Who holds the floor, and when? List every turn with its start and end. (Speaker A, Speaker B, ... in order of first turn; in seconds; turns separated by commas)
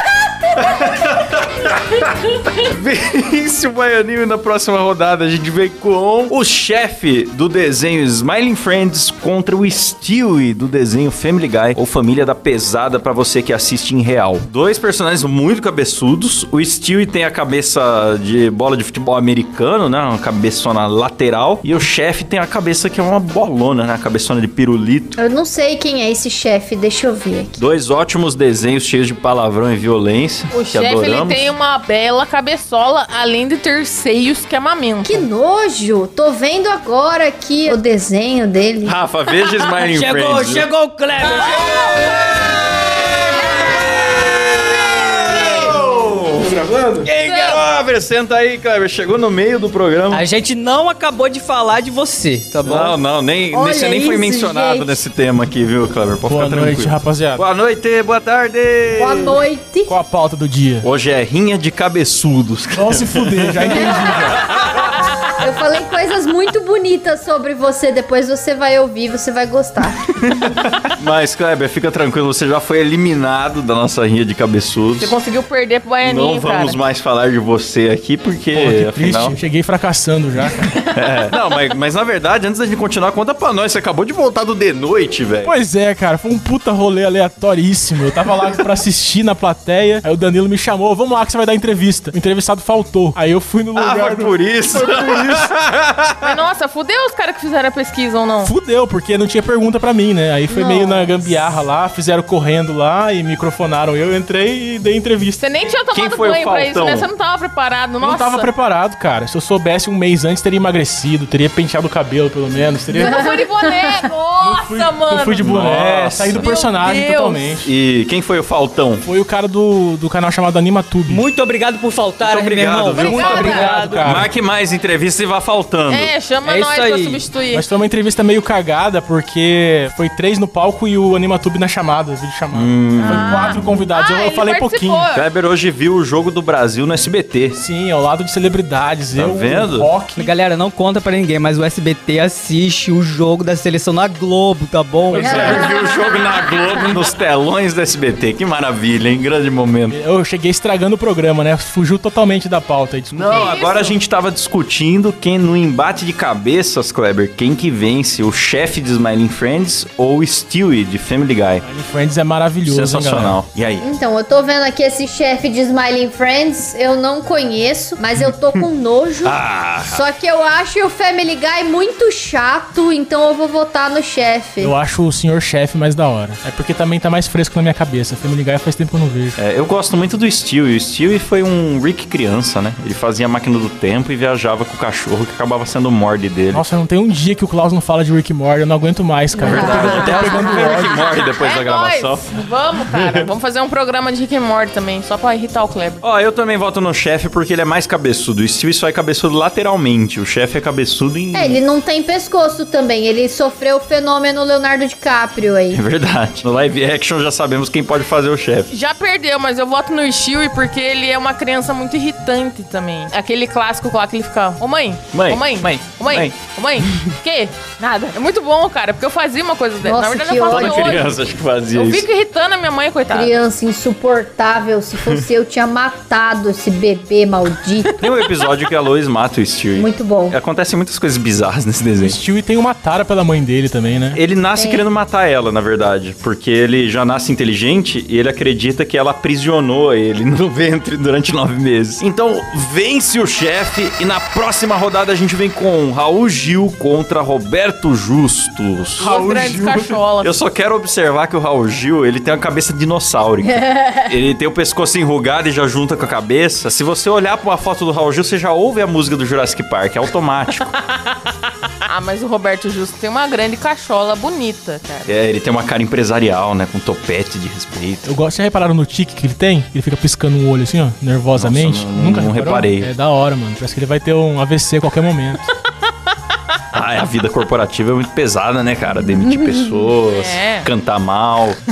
Speaker A: 0.5-25.2, Speaker B: 25.2-27.6, Speaker A: 27.6-31.5, Speaker C: 30.5-35.2, Speaker B: 35.0-39.0, Speaker A: 38.9-40.7, Speaker D: 39.8-42.0, Speaker A: 41.4-50.2, Speaker C: 47.3-47.6, Speaker D: 50.1-53.0, Speaker A: 52.6-59.4, Speaker B: 53.5-55.0, Speaker E: 56.3-57.4, Speaker B: 59.0-59.9, Speaker E: 59.9-60.9, Speaker A: 60.8-65.0, Speaker E: 62.8-64.5, Speaker B: 63.8-64.3, Speaker B: 65.3-70.0, Speaker A: 70.2-75.1, Speaker C: 75.0-76.8, Speaker A: 76.0-79.4, Speaker E: 78.5-80.7, Speaker A: 80.9-85.5, Speaker E: 85.5-95.5, Speaker A: 93.8-96.3, Speaker C: 96.2-98.5, Speaker E: 98.4-105.4, Speaker B: 100.5-101.1, Speaker C: 105.4-108.5, Speaker A: 105.9-107.1, Speaker E: 108.0-113.3, Speaker C: 112.9-115.5, Speaker B: 112.9-114.0, Speaker E: 114.4-117.7, Speaker A: 115.4-116.5, Speaker C: 116.4-117.5, Speaker A: 117.6-119.0, Speaker E: 119.0-121.3, Speaker D: 121.1-124.3, Speaker A: 122.2-126.1, Speaker E: 123.0-124.3, Speaker C: 123.1-123.6, Speaker C: 125.9-127.6, Speaker D: 126.4-127.2, Speaker E: 127.5-135.1, Speaker A: 132.5-133.7, Speaker C: 133.0-135.3, Speaker A: 135.1-137.6, Speaker E: 137.6-140.3, Speaker A: 139.1-139.9, Speaker D: 140.2-145.6, Speaker E: 145.1-145.7, Speaker B: 145.2-146.9, Speaker A: 145.2-150.0, Speaker E: 149.9-153.6, Speaker A: 153.1-161.6, Speaker C: 153.3-154.0, Speaker E: 161.6-163.4, Speaker A: 162.7-163.9, Speaker B: 163.8-174.7, Speaker A: 169.2-170.0, Speaker E: 174.6-179.4, Speaker A: 179.4-186.6, Speaker E: 186.5-191.0, Speaker B: 189.4-190.7, Speaker A: 189.4-192.2, Speaker C: 191.3-196.0, Speaker A: 192.9-193.3, Speaker A: 196.0-201.6, Speaker B: 201.3-205.8, Speaker A: 205.7-208.7, Speaker C: 208.7-221.1, Speaker A: 215.1-216.3, Speaker B: 219.8-221.0, Speaker A: 220.4-222.1, Speaker C: 221.7-223.4, Speaker B: 223.1-227.9, Speaker C: 227.8-228.5, Speaker A: 228.0-232.2, Speaker B: 229.8-230.4, Speaker E: 232.0-234.2, Speaker A: 234.1-260.8, Speaker B: 234.6-234.8, Speaker C: 249.0-250.4, Speaker E: 249.0-249.4, Speaker B: 253.4-254.1, Speaker C: 261.9-265.1, Speaker A: 265.1-268.1, Speaker E: 268.1-275.4, Speaker A: 271.4-272.9, Speaker A: 276.7-281.6, Speaker B: 278.9-279.9, Speaker C: 280.1-280.7